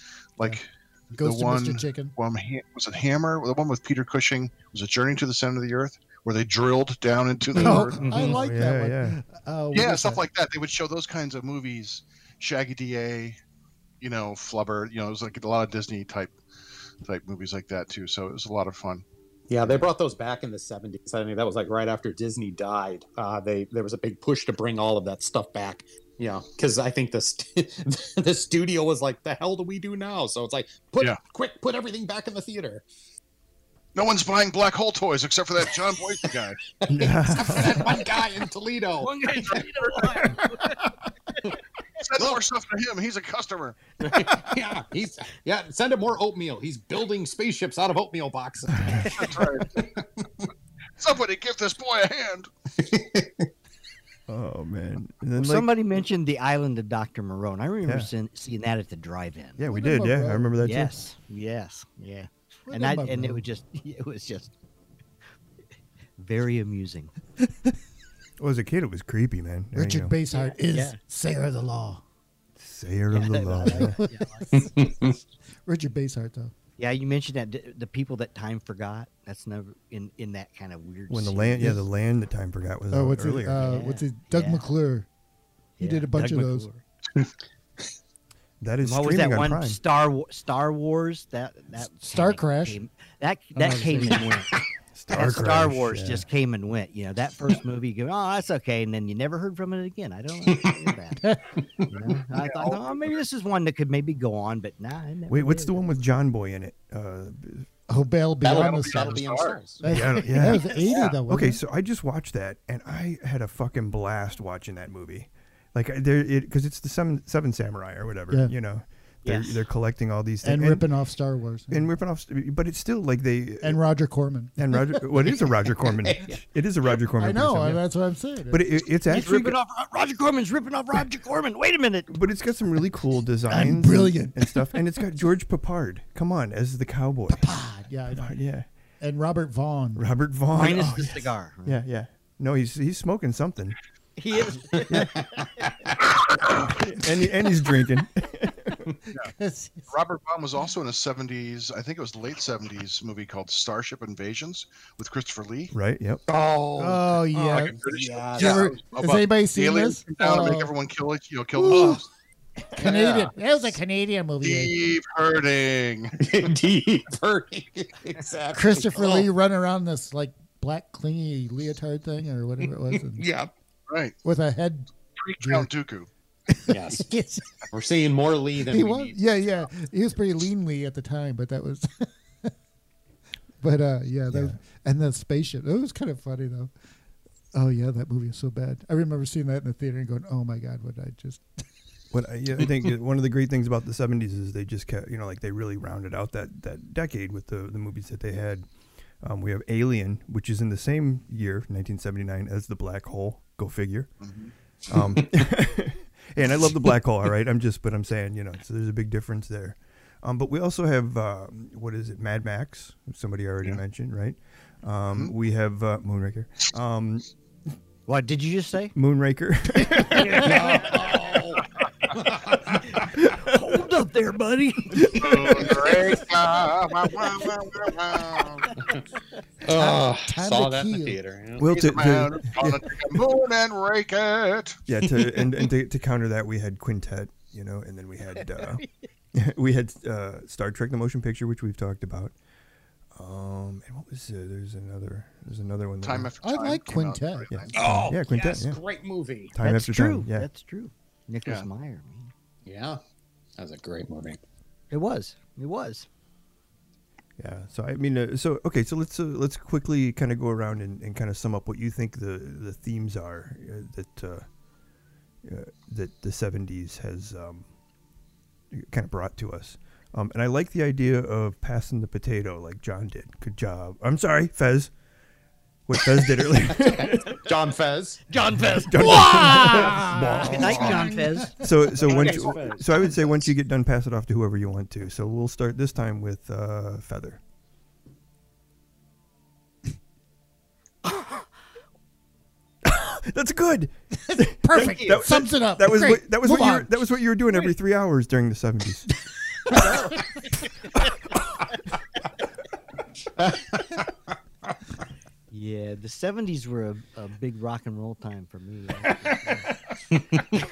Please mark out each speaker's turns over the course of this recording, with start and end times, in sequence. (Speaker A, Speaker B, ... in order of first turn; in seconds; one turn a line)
Speaker A: 0.4-8.3
Speaker B: 1.1-2.1
Speaker B: 7.5-10.2
Speaker C: 7.6-8.4
Speaker D: 8.0-9.2
Speaker A: 9.7-13.4
Speaker A: 14.0-16.3
Speaker A: 17.0-19.0
Speaker E: 19.5-32.9
Speaker A: 33.9-36.6
Speaker E: 36.2-39.6
Speaker D: 36.9-38.0
Speaker C: 39.0-40.9
Speaker A: 39.5-40.2
Speaker A: 42.0-43.9
Speaker E: 44.0-50.5
Speaker D: 48.7-49.1
Speaker A: 49.0-50.0
Speaker A: 51.0-52.5
Speaker E: 52.8-53.5
Speaker D: 54.3-55.7
Speaker C: 55.4-59.6
Speaker D: 57.8-58.1
Speaker D: 59.6-61.0
Speaker B: 59.6-60.5
Speaker C: 60.6-64.5
Speaker B: 62.7-63.4
Speaker C: 66.2-67.1
Speaker D: 68.4-70.2
Speaker B: 69.7-72.0
Speaker C: 70.3-71.0
Speaker D: 72.6-74.0
Speaker C: 73.1-74.7
Speaker B: 73.6-74.8
Speaker E: 74.5-75.2
Speaker B: 75.6-76.5
Speaker C: 76.8-81.8
Speaker D: 81.1-83.8
Speaker B: 82.9-85.1
Speaker C: 83.6-84.7
Speaker B: 85.8-86.7
Speaker C: 85.8-86.8
Speaker D: 88.6-89.8
Speaker C: 88.8-94.5
Speaker B: 91.9-92.8
Speaker B: 93.5-94.3
Speaker D: 94.9-96.2
Speaker C: 95.1-101.2
Speaker E: 100.5-100.8
Speaker B: 101.2-101.5
Speaker C: 101.9-105.8
Speaker A: 102.0-103.2
Speaker D: 105.3-107.7
Speaker B: 107.9-111.6
Speaker E: 108.4-109.8
Speaker A: 108.5-109.6
Speaker D: 109.8-110.7
Speaker C: 110.5-111.0
Speaker A: 110.8-111.2
Speaker D: 111.3-120.9
Speaker C: 119.2-119.6
Speaker B: 120.4-121.9
Speaker D: 121.7-123.8
Speaker B: 123.6-124.6
Speaker D: 124.5-127.8
Speaker E: 125.2-126.4
Speaker B: 127.2-128.7
Speaker D: 128.5-129.6
Speaker C: 129.1-132.1
Speaker D: 132.1-137.5
Speaker B: 133.5-134.8
Speaker B: 137.3-138.4
Speaker D: 138.1-138.6
Speaker B: 139.0-140.0
Speaker D: 139.9-143.8
Speaker C: 140.5-141.8
Speaker C: 144.2-145.7
Speaker E: 144.9-146.0
Speaker D: 146.5-148.8
Speaker B: 149.1-149.9
Speaker A: 149.9-155.7
Speaker D: 155.7-156.2
Speaker E: 156.3-158.7
Speaker B: 156.8-157.8
Speaker A: 157.5-162.1
Speaker B: 158.3-160.7
Speaker B: 161.6-162.0
Speaker E: 161.7-162.0
Speaker B: 162.8-164.7
Speaker E: 162.8-163.3
Speaker A: 164.4-166.2
Speaker E: 166.2-169.3
Speaker B: 168.5-173.2
Speaker E: 172.9-173.5
Speaker A: 173.9-174.1
Speaker B: 174.2-174.9
Speaker A: 175.2-176.1
Speaker B: 175.4-175.7
Speaker B: 176.5-177.7
Speaker E: 176.7-177.1
Speaker E: 177.7-179.2
Speaker B: 178.7-182.5
Speaker B: 183.6-186.7
Speaker D: 184.3-184.6
Speaker B: 187.5-191.6
Speaker D: 192.1-198.7
Speaker D: 199.2-204.1
Speaker A: 204.2-204.5
Speaker D: 204.9-217.3
Speaker E: 204.9-205.2
Speaker C: 218.1-218.9
Speaker D: 218.9-220.6
Speaker C: 219.9-221.1
Speaker E: 220.3-222.8
Speaker C: 222.8-226.1
Speaker D: 223.1-223.5
Speaker D: 225.0-225.7
Speaker A: 225.1-228.8
Speaker C: 228.4-228.9
Speaker E: 228.8-229.0
Speaker E: 229.6-231.7
Speaker B: 229.7-231.2
Speaker D: 231.6-232.9
Speaker A: 231.7-234.8
Speaker D: 234.9-242.3
Speaker D: 243.1-246.3
Speaker A: 246.0-247.7
Speaker B: 246.4-247.7
Speaker D: 247.5-248.8
Speaker E: 247.7-249.5
Speaker D: 249.5-250.5
Speaker C: 249.6-252.3
Speaker E: 252.6-253.0
Speaker E: 253.6-254.4
Speaker C: 254.9-256.1
Speaker D: 257.4-264.5
Speaker D: 265.4-267.7
Speaker D: 268.7-274.9
Speaker D: 275.9-277.4
Speaker E: 276.7-278.2
Speaker C: 278.3-281.6
Speaker D: 278.7-281.1
Speaker E: 279.0-281.1
Speaker B: 279.1-281.7
Speaker D: 281.6-287.4
Speaker E: 282.0-283.4
Speaker D: 292.8-299.1
Speaker B: 294.3-296.9
Speaker C: 294.8-295.2
Speaker C: 299.7-300.2
Speaker E: 303.4-304.1
Speaker C: 305.5-309.7
Speaker E: 310.1-310.4